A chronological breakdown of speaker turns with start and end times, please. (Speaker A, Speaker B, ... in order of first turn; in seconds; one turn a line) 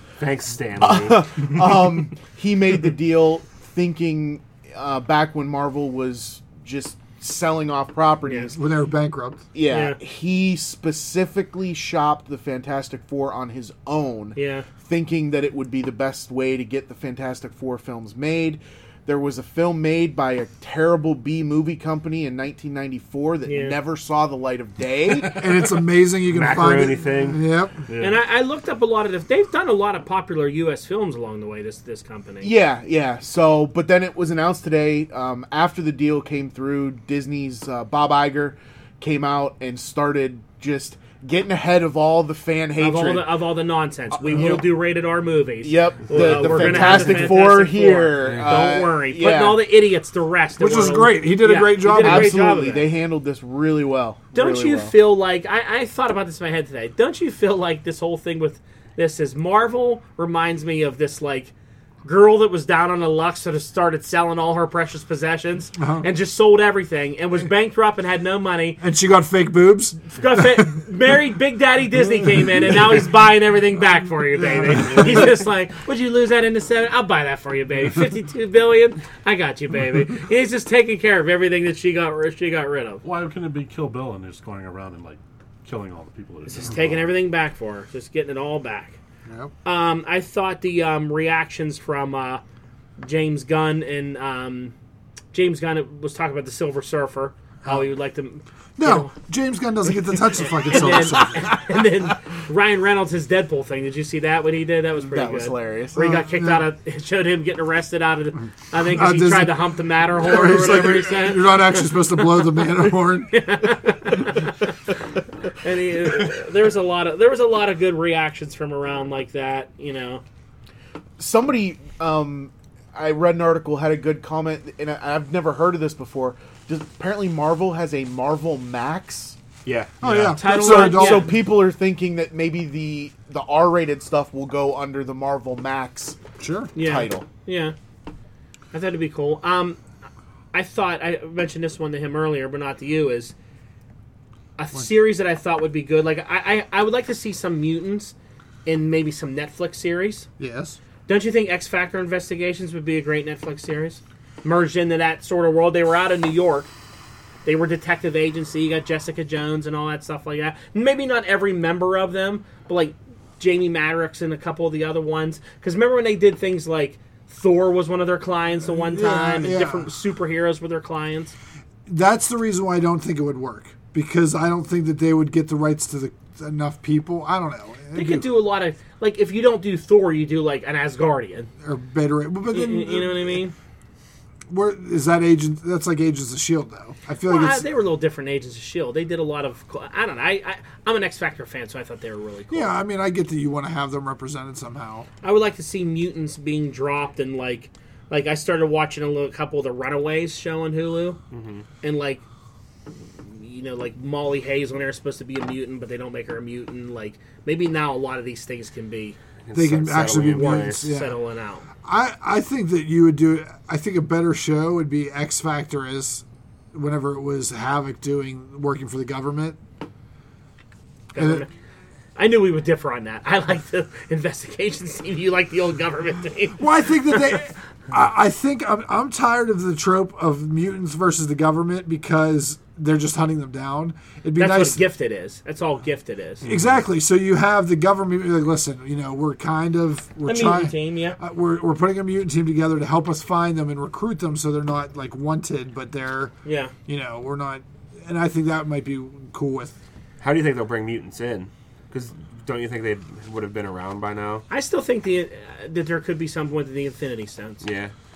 Speaker A: 0.2-1.8
Speaker B: 0.8-8.6
Speaker C: 8.2-8.5
Speaker D: 8.5-9.4
Speaker B: 9.5-25.4
Speaker C: 9.7-10.0
Speaker C: 14.3-14.7
Speaker C: 23.5-23.8
Speaker D: 25.3-27.8
Speaker A: 26.3-27.4
Speaker E: 27.9-28.2
Speaker C: 28.0-32.5
Speaker B: 32.4-43.3
Speaker C: 42.8-52.9
Speaker B: 44.1-44.8
Speaker B: 45.6-49.6
Speaker A: 48.2-48.7
Speaker D: 50.6-52.4
Speaker B: 51.8-55.0
Speaker C: 54.3-61.5
Speaker C: 62.0-68.8
Speaker D: 65.8-66.1
Speaker D: 68.8-70.6
Speaker C: 70.1-83.0
Speaker D: 74.5-75.0
Speaker E: 83.0-87.1
Speaker C: 86.5-89.0
Speaker D: 89.3-89.5
Speaker C: 89.6-92.4
Speaker C: 93.0-94.8
Speaker C: 95.3-99.1
Speaker D: 97.6-97.9
Speaker D: 98.8-101.8
Speaker C: 100.4-112.7
Speaker B: 105.0-106.0
Speaker D: 106.0-106.7
Speaker D: 108.8-113.4
Speaker C: 113.3-114.7
Speaker C: 115.6-120.2
Speaker B: 121.2-129.4
Speaker A: 129.7-130.0
Speaker D: 130.0-131.3
Speaker B: 130.3-136.2
Speaker C: 130.3-131.3
Speaker D: 136.4-136.7
Speaker B: 136.8-137.3
Speaker C: 136.8-137.8
Speaker C: 138.7-139.8
Speaker C: 140.5-143.3
Speaker C: 144.6-148.2
Speaker C: 148.7-150.3
Speaker D: 150.4-150.8
Speaker C: 151.1-156.7
Speaker C: 157.4-171.3
Speaker D: 168.7-169.9
Speaker D: 171.9-178.3
Speaker C: 177.9-181.5
Speaker D: 181.6-183.4
Speaker C: 182.5-183.5
Speaker D: 184.5-187.7
Speaker C: 187.3-192.7
Speaker D: 192.5-195.1
Speaker C: 195.2-201.2
Speaker A: 201.3-201.7
Speaker C: 201.8-202.2
Speaker C: 203.0-209.2
Speaker A: 209.4-210.9
Speaker D: 209.5-211.2
Speaker C: 210.7-211.7
Speaker D: 211.8-219.6
Speaker C: 221.1-221.5
Speaker D: 221.2-221.4
Speaker C: 222.2-227.4
Speaker D: 226.6-234.8
Speaker C: 234.4-236.5
Speaker D: 236.4-246.3
Speaker C: 240.2-241.2
Speaker C: 246.4-246.7
Speaker D: 246.9-249.8
Speaker A: 250.2-254.4
Speaker C: 254.5-257.6
Speaker A: 257.6-257.9